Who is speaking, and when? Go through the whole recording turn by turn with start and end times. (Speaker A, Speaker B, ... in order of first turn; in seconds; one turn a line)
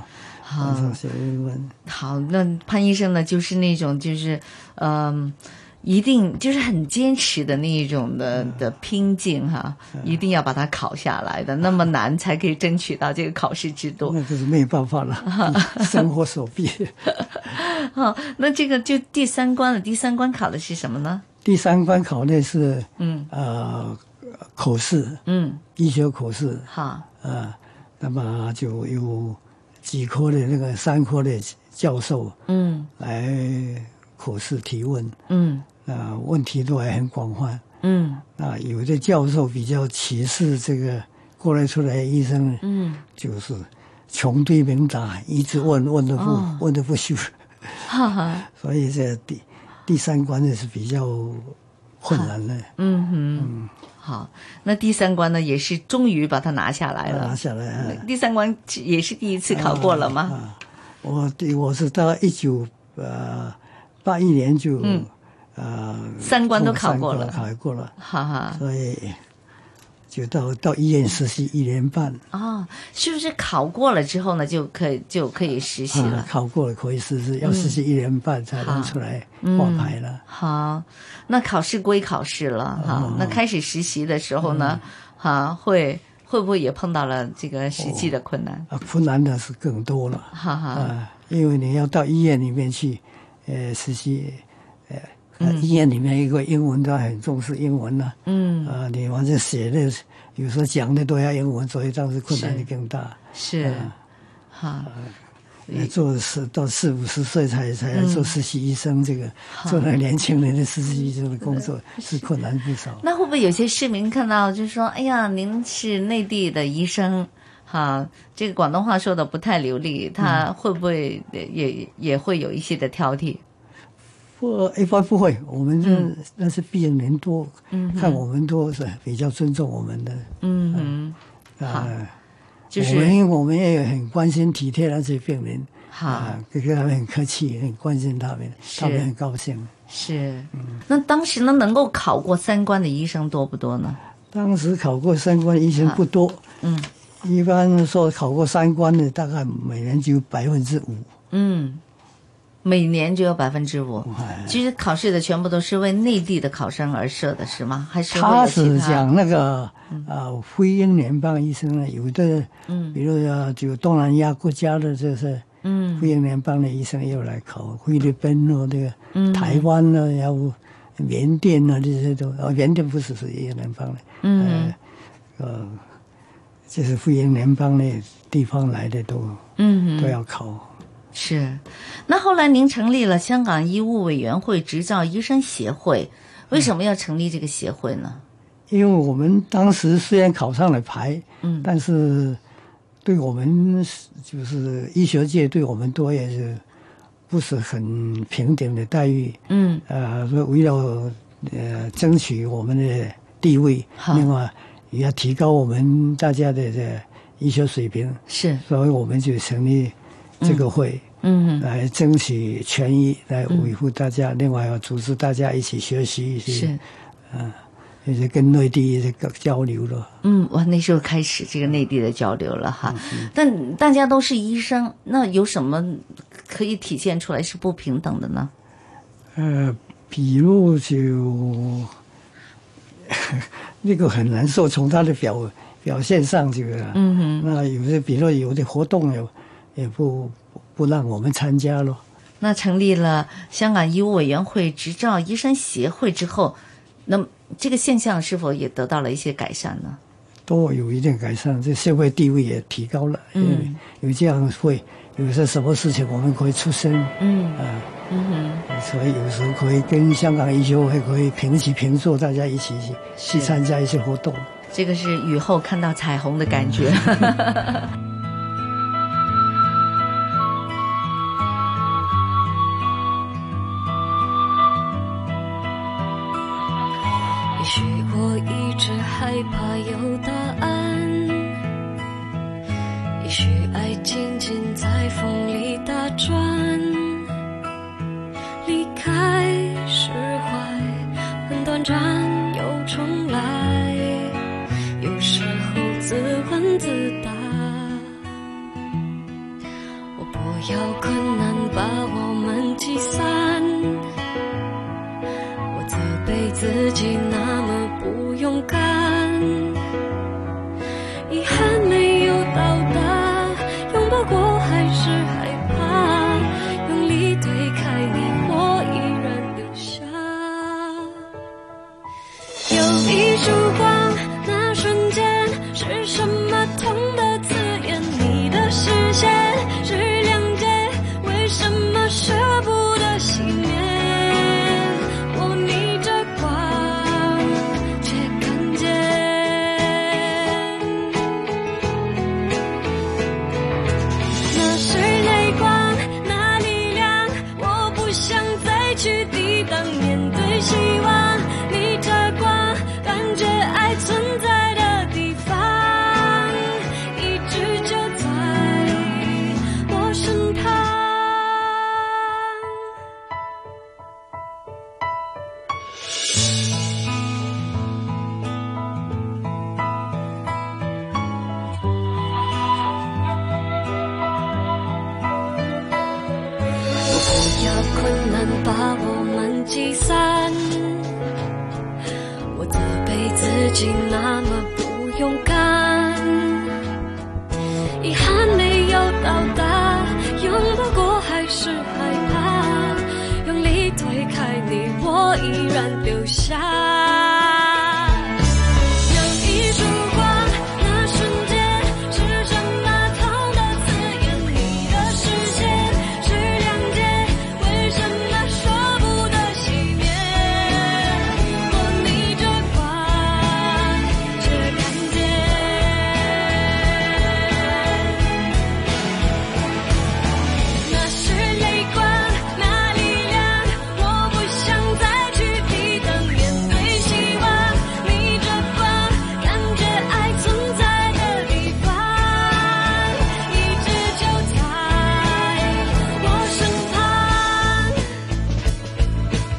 Speaker A: 0.4-1.0
Speaker B: 0.6-1.7
Speaker A: 1.8-14.2
Speaker B: 8.3-8.6
Speaker B: 14.0-17.5
Speaker A: 15.3-16.0
Speaker A: 17.4-21.2
Speaker B: 21.4-25.2
Speaker A: 23.0-23.3
Speaker A: 25.2-25.6
Speaker B: 25.8-26.7
Speaker A: 26.7-27.1
Speaker B: 27.2-32.4
Speaker A: 32.5-32.9
Speaker B: 33.0-35.2
Speaker A: 35.3-35.6
Speaker B: 35.8-37.6
Speaker A: 37.8-38.2
Speaker B: 38.4-47.9
Speaker A: 42.6-43.0
Speaker A: 46.2-46.6
Speaker A: 47.9-48.4
Speaker B: 48.4-52.7
Speaker A: 52.1-60.4
Speaker B: 53.4-53.7
Speaker B: 57.0-58.1
Speaker B: 59.5-67.9
Speaker A: 64.8-65.1
Speaker A: 66.2-68.6
Speaker B: 68.5-69.2
Speaker B: 70.1-72.2
Speaker A: 72.3-76.3
Speaker B: 75.9-80.2
Speaker A: 77.4-77.8
Speaker A: 78.5-88.7
Speaker B: 82.8-83.4
Speaker B: 84.4-84.9
Speaker B: 87.8-88.1
Speaker B: 88.7-104.0
Speaker A: 90.3-90.9
Speaker A: 95.4-95.7
Speaker A: 98.2-98.7
Speaker A: 102.3-102.7
Speaker A: 103.3-103.9
Speaker A: 104.5-104.9
Speaker B: 104.9-105.1
Speaker A: 105.7-105.9
Speaker B: 105.7-113.0
Speaker A: 107.9-108.3
Speaker A: 109.5-109.9
Speaker A: 111.4-112.2
Speaker A: 113.0-123.4
Speaker B: 124.4-131.0
Speaker A: 125.8-126.1
Speaker A: 127.7-128.2
Speaker A: 130.4-131.9
Speaker B: 131.6-132.1
Speaker A: 132.7-133.2
Speaker B: 132.7-139.7
Speaker A: 135.9-136.4
Speaker A: 138.6-139.1
Speaker A: 139.9-144.0
Speaker B: 144.3-146.4
Speaker A: 146.6-146.9
Speaker B: 147.2-151.1
Speaker A: 151.3-151.8
Speaker A: 152.6-159.0
Speaker B: 154.0-154.6
Speaker B: 158.1-165.4
Speaker A: 162.7-163.0
Speaker A: 165.6-166.1
Speaker B: 166.0-174.8
Speaker A: 169.1-169.7
Speaker A: 174.2-174.7
Speaker B: 175.4-175.9
Speaker B: 176.7-179.4
Speaker A: 179.6-180.2
Speaker B: 180.0-180.7
Speaker A: 181.1-188.2
Speaker B: 188.7-192.4
Speaker A: 191.4-191.7
Speaker B: 193.0-196.6
Speaker B: 197.3-211.1
Speaker A: 199.5-199.8
Speaker A: 204.0-204.3
Speaker A: 208.3-208.6
Speaker A: 210.4-210.7
Speaker A: 211.2-211.7
Speaker B: 211.6-216.8
Speaker A: 216.5-216.8
Speaker B: 217.3-220.1
Speaker A: 220.2-228.5
Speaker B: 222.8-223.3
Speaker B: 229.3-232.0
Speaker B: 233.1-242.0
Speaker A: 236.9-237.5
Speaker A: 242.4-250.0
Speaker B: 250.5-257.9
Speaker A: 253.3-253.8
Speaker A: 257.2-258.6
Speaker B: 258.7-264.5
Speaker A: 263.1-263.6
Speaker A: 264.7-267.9
Speaker C: 277.6-281.6
Speaker C: 283.2-287.3
Speaker C: 288.6-294.4
Speaker C: 295.0-298.2
Speaker C: 300.1-304.1
Speaker C: 305.7-309.8
Speaker C: 311.3-321.3
Speaker C: 322.7-341.6
Speaker C: 344.5-362.8
Speaker C: 377.1-381.1
Speaker C: 382.5-386.9
Speaker C: 388.0-418.5
Speaker C: 420.8-438.1